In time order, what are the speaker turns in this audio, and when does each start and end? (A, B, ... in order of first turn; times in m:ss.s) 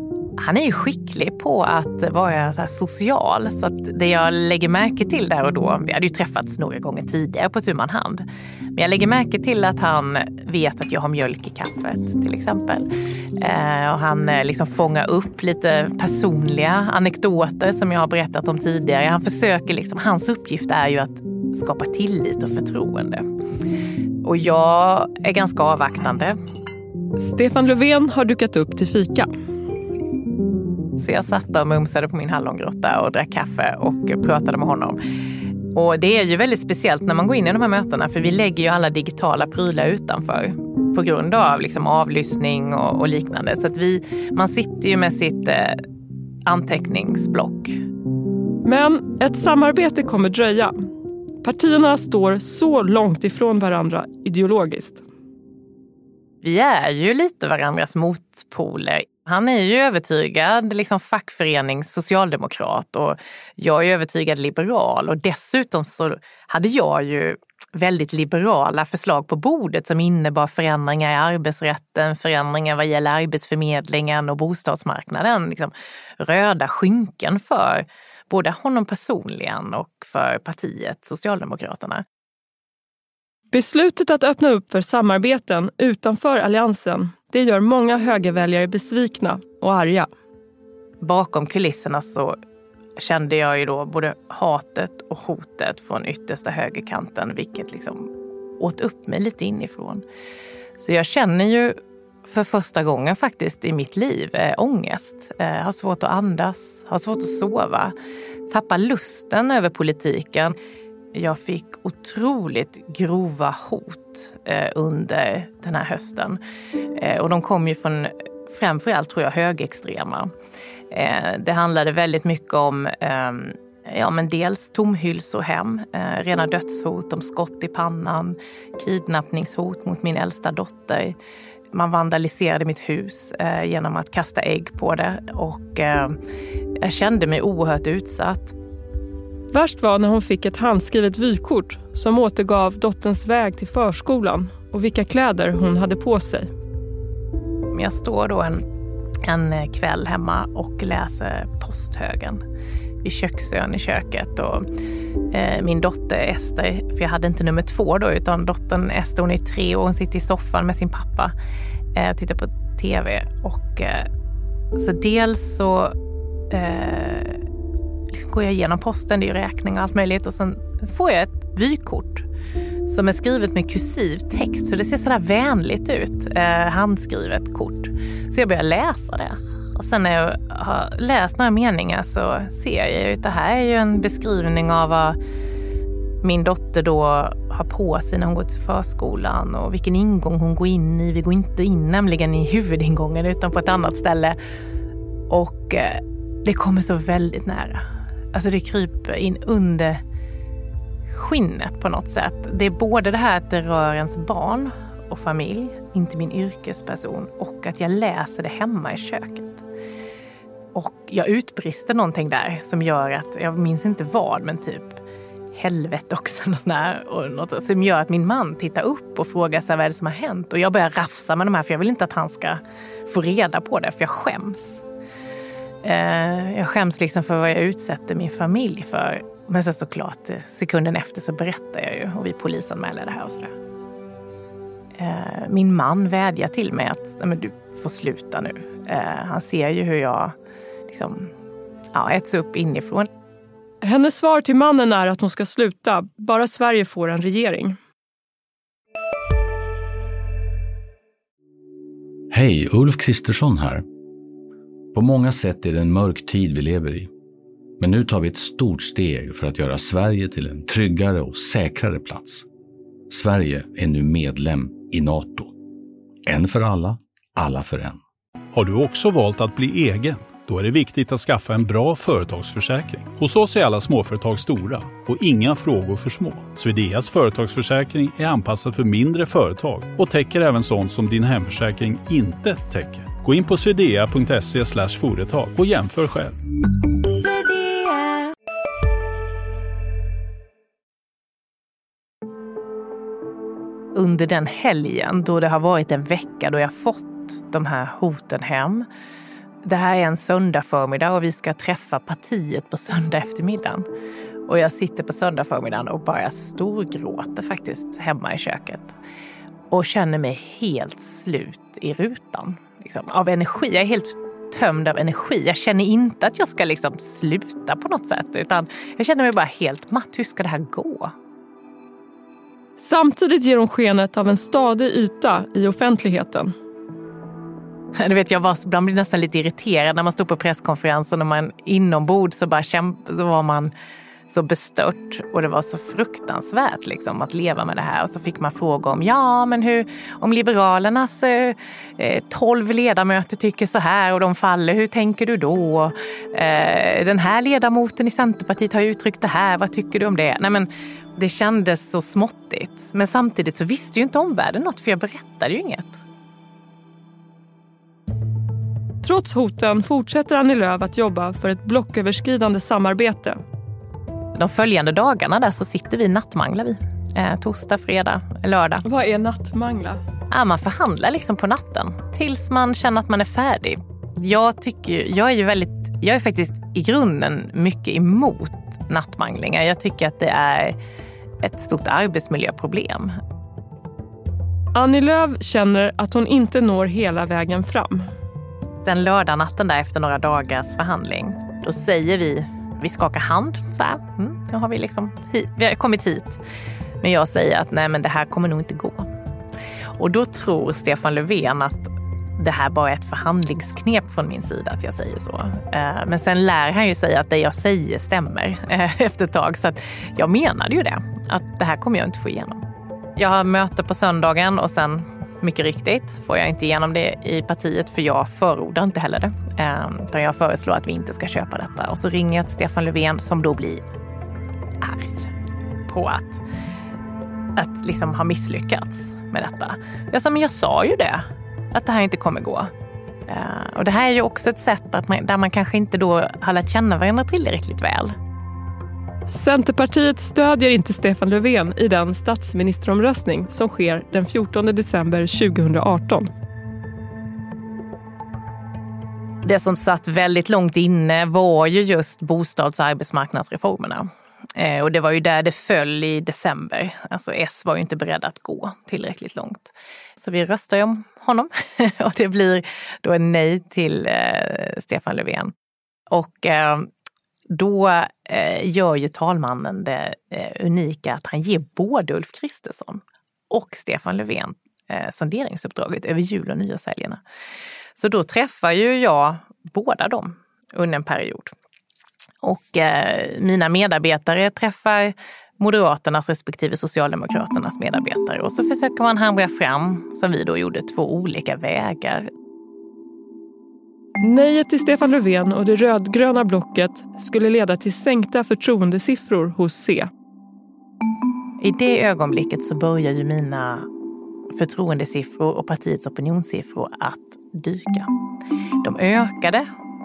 0:00.4-0:08.2 A
0:08.8-0:12.9 A
0:13.4-0:23.2 A
0:24.2-0:26.4 A
0:27.2-0:29.3 B
0:31.0-0:35.0 A
0:35.7-0:45.8 A
0:46.5-0:47.8 A
0:48.6-0:50.7 B
0:51.4-0:55.0 B
0:56.4-1:22.0 A
1:23.5-1:30.1 B
1:31.0-1:32.3 A
1:33.0-1:40.0 A
1:40.8-1:41.7 A
1:42.2-1:47.9 A
1:48.5-1:50.5 A
1:51.1-1:56.4 A
1:57.0-2:00.3 A
2:00.9-2:11.2 A
2:11.7-2:16.1 A
2:16.8-2:18.5 A
2:19.5-2:26.5 B
2:27.7-2:28.6 A
2:29.2-2:32.4 A
2:33.0-2:34.6 A
2:35.3-2:41.3 A
2:42.0-2:44.1 A
2:44.8-2:45.9 A
2:46.5-2:47.4 A
2:48.1-2:52.2 A
2:52.9-3:05.2 A
3:06.2-3:14.4 A
3:15.3-3:17.8 A
3:18.3-3:20.0 A
3:21.1-3:29.6 A
3:30.7-3:35.0 A
3:35.5-3:44.8 A
3:45.8-3:53.5 A
3:55.0-4:00.3 A
4:00.9-4:01.3 A
4:01.9-4:03.1 A
4:03.8-4:07.8 B
4:12.3-4:13.8 C
4:14.9-4:17.1 C
4:17.8-4:22.4 C
4:23.1-4:25.5 C
4:26.2-4:28.0 C
4:28.5-4:46.3 D
4:53.9-4:58.8 A
4:59.6-5:03.8 A
5:04.5-5:08.9 A
5:09.7-5:21.1 A
5:22.8-5:26.5 B
5:28.0-5:33.7 A
5:34.3-5:56.0 A
5:59.0-6:03.4 B
6:04.4-6:08.8 A
6:08.8-6:10.0 B
6:10.3-6:20.8 A
6:21.4-6:23.1 A
6:24.7-6:28.0 B
6:28.8-6:36.4 A
6:37.0-6:39.1 A
6:40.0-6:52.6 A
6:53.2-7:03.8 A
7:04.8-7:05.3 A
7:05.9-7:06.4 A
7:07.6-7:11.2 A
7:11.7-7:12.7 A
7:13.3-7:18.1 A
7:19.3-7:26.3 B
7:29.4-7:45.5 A
7:46.1-7:46.9 A
7:47.5-7:57.2 A
7:58.0-8:01.5 A
8:02.4-8:12.2 A
8:14.2-8:20.1 B
8:21.6-8:23.8 A
8:24.6-8:28.1 A
8:28.8-8:29.6 A